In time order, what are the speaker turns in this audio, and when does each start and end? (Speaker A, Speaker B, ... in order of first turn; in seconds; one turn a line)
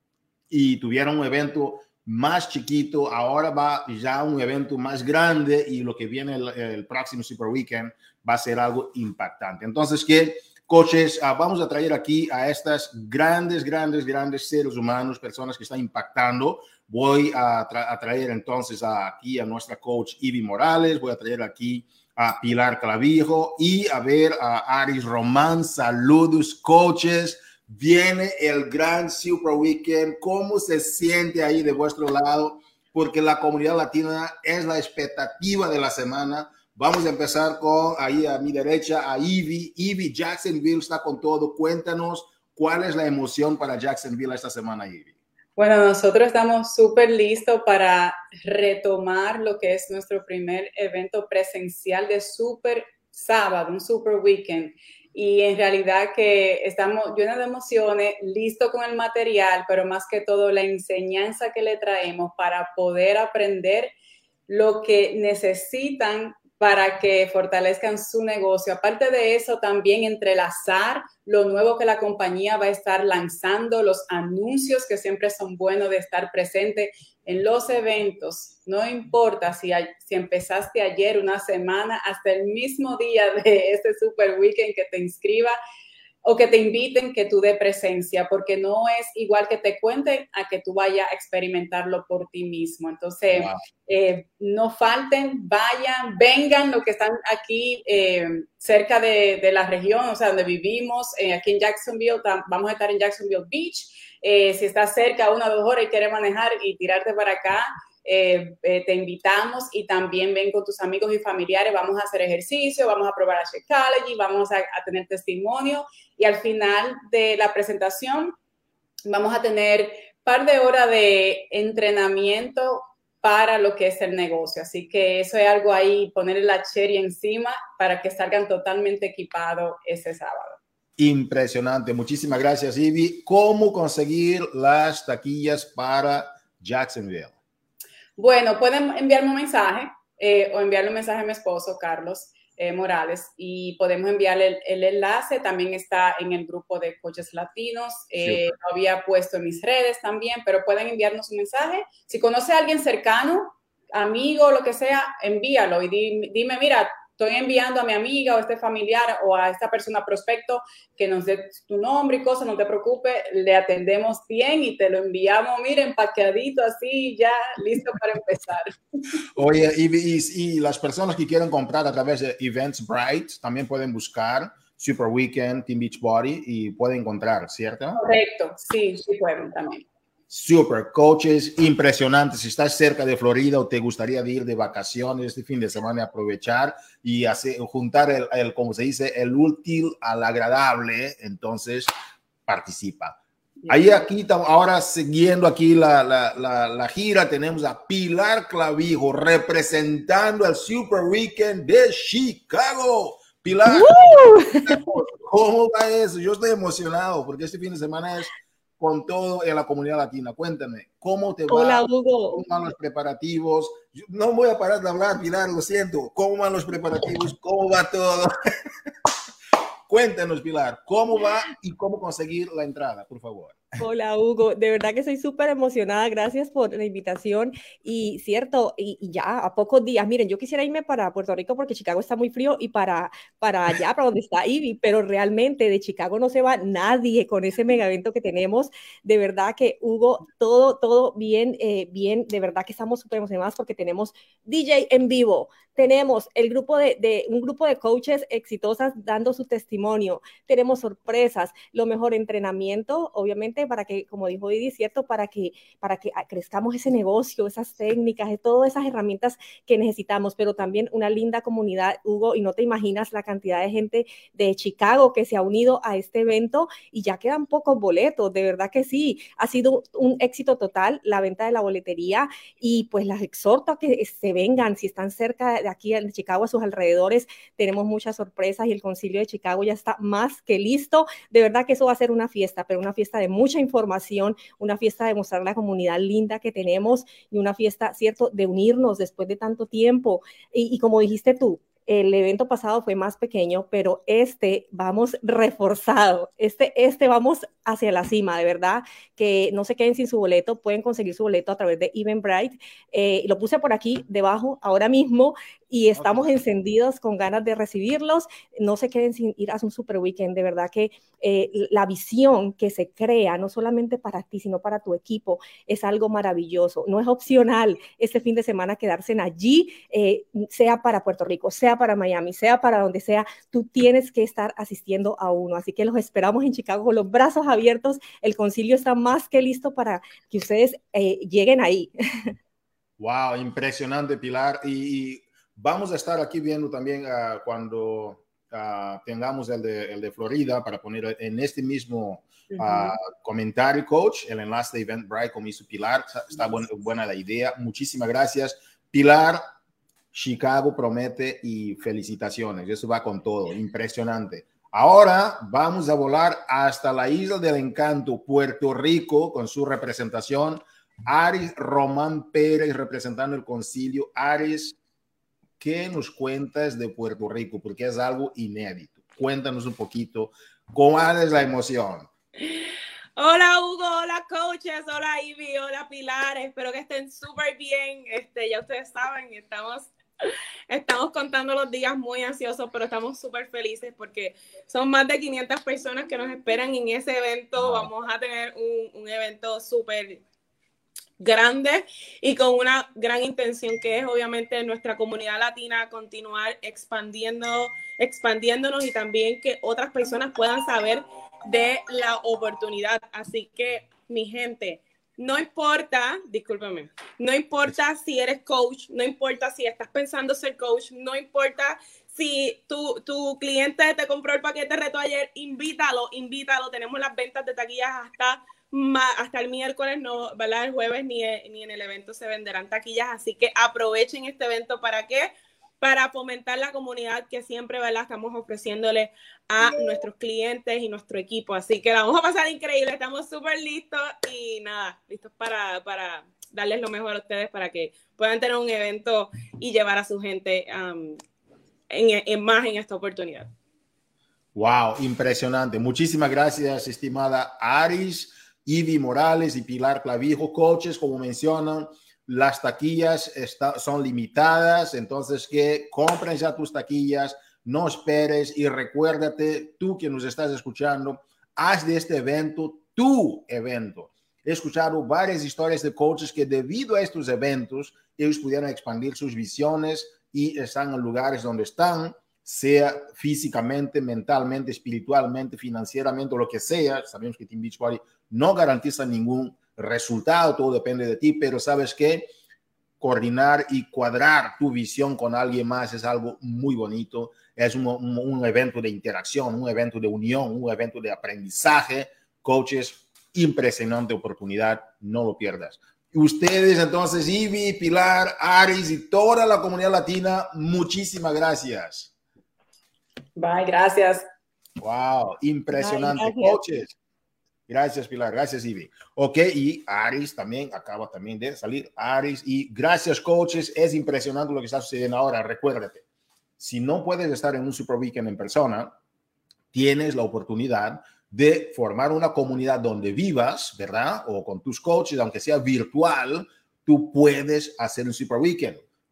Speaker A: 0.5-45.1
Speaker B: 45.6-63.9
Speaker B: 64.5-85.6
Speaker B: 86.2-118.3
Speaker A: 93.3-93.6
Speaker B: 119.0-130.6
Speaker A: 131.0-137.3
Speaker B: 138.2-168.8
Speaker A: 169.3-178.0
Speaker B: 177.9-179.8
Speaker A: 180.3-191.9
Speaker A: 192.5-218.3
Speaker C: 203.7-204.8
Speaker C: 211.5-212.4
Speaker A: 219.9-223.6
Speaker C: 223.8-331.9
Speaker A: 305.9-306.3
Speaker A: 333.0-349.4
Speaker A: 350.1-364.8
Speaker A: 365.6-372.1
Speaker D: 373.2-379.9
Speaker D: 380.7-390.2
Speaker A: 387.6-387.9
Speaker D: 391.2-441.2
Speaker D: 441.9-443.5
Speaker A: 444.5-482.3
Speaker A: 483.0-502.1
Speaker B: 503.4-504.2
Speaker A: 504.8-506.9
Speaker C: 505.7-506.6
Speaker A: 507.7-516.0
Speaker A: 516.6-518.9
Speaker A: 519.7-528.8